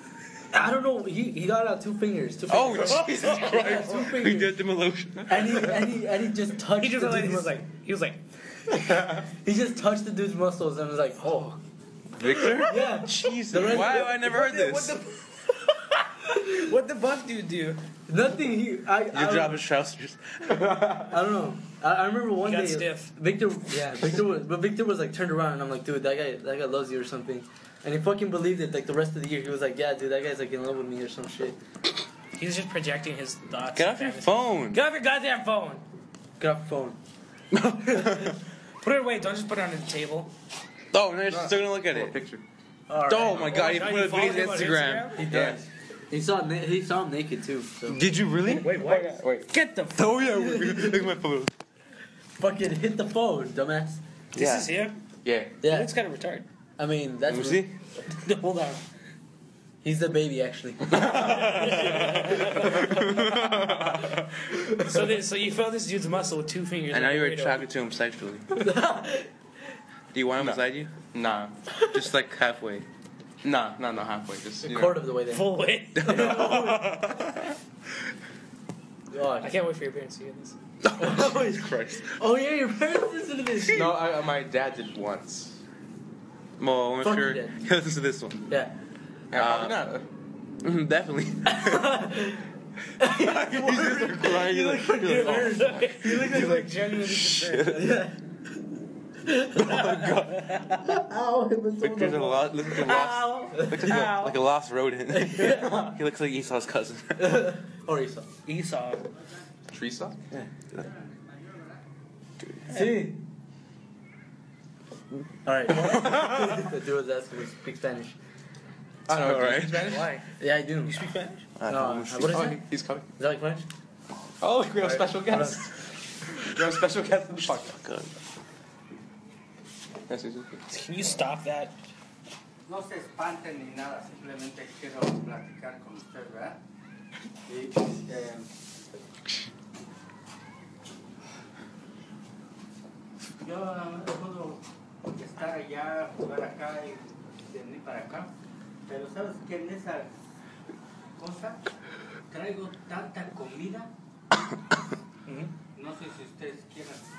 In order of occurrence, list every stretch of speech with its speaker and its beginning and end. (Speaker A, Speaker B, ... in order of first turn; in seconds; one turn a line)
Speaker A: 0.5-4.5
Speaker B: 2.5-5.9
Speaker C: 2.9-3.8
Speaker A: 5.3-7.6
Speaker C: 6.8-8.2
Speaker A: 9.4-11.5
Speaker B: 12.1-15.0
Speaker A: 12.6-14.3
Speaker C: 14.0-15.2
Speaker C: 16.2-17.8
Speaker A: 18.1-19.6
Speaker B: 19.1-20.9
Speaker A: 20.9-31.6
Speaker C: 22.4-23.1
Speaker C: 32.4-35.8
Speaker B: 33.7-34.8
Speaker A: 36.4-37.0
Speaker B: 37.5-38.4
Speaker C: 38.8-40.3
Speaker B: 40.9-42.2
Speaker D: 41.3-42.4
Speaker A: 42.9-43.6
Speaker B: 43.0-45.1
Speaker C: 43.3-45.2
Speaker A: 45.2-48.0
Speaker D: 45.3-45.6
Speaker B: 47.9-48.8
Speaker C: 48.6-50.0
Speaker D: 48.8-49.5
Speaker B: 49.9-51.5
Speaker A: 50.4-50.9
Speaker A: 52.4-54.0
Speaker B: 54.3-54.7
Speaker C: 54.3-55.0
Speaker D: 55.2-55.5
Speaker A: 55.6-55.9
Speaker C: 55.6-56.5
Speaker A: 56.8-57.6
Speaker B: 57.2-57.7
Speaker C: 58.1-58.8
Speaker A: 59.8-63.1
Speaker B: 60.9-64.2
Speaker C: 61.1-62.8
Speaker C: 64.8-67.6
Speaker B: 66.9-68.6
Speaker A: 68.5-69.3
Speaker B: 70.1-70.9
Speaker D: 70.4-71.5
Speaker B: 71.9-72.9
Speaker D: 73.4-75.0
Speaker A: 74.6-75.5
Speaker C: 75.3-76.6
Speaker B: 75.9-77.5
Speaker A: 76.0-76.9
Speaker A: 79.1-79.5
Speaker C: 79.4-80.5
Speaker B: 80.8-82.0
Speaker A: 81.0-84.0
Speaker D: 83.7-85.6
Speaker B: 86.6-88.5
Speaker A: 87.0-87.5
Speaker D: 89.3-90.0
Speaker B: 89.3-89.9
Speaker B: 90.6-92.0
Speaker A: 91.5-92.4
Speaker A: 93.0-96.6
Speaker B: 93.0-98.0
Speaker C: 95.0-97.9
Speaker A: 97.7-98.2
Speaker A: 99.2-99.8
Speaker B: 99.5-100.7
Speaker C: 99.7-100.7
Speaker A: 100.8-102.5
Speaker B: 101.8-107.5
Speaker C: 102.8-104.4
Speaker A: 105.1-105.9
Speaker A: 107.2-108.3
Speaker C: 108.5-109.0
Speaker D: 109.7-110.2
Speaker B: 110.3-110.8
Speaker E: 110.8-111.8
Speaker B: 112.4-112.9
Speaker A: 112.7-113.2
Speaker A: 115.4-118.2
Speaker B: 115.7-116.5
Speaker D: 119.1-120.1
Speaker B: 119.1-119.8
Speaker C: 119.2-120.3
Speaker A: 120.4-121.0
Speaker C: 120.8-121.5
Speaker B: 121.6-122.5
Speaker A: 121.7-122.6
Speaker D: 122.2-123.0
Speaker A: 123.2-123.7
Speaker D: 124.4-125.7
Speaker A: 124.8-125.6
Speaker D: 126.3-127.8
Speaker B: 127.7-128.1
Speaker D: 130.1-130.5
Speaker C: 130.7-131.7
Speaker E: 132.7-136.6
Speaker E: 137.5-138.5
Speaker E: 143.4-148.3
Speaker E: 148.8-150.1
Speaker E: 151.2-151.6
Speaker E: 152.3-153.9
Speaker A: 155.3-155.5
Speaker E: 155.7-157.0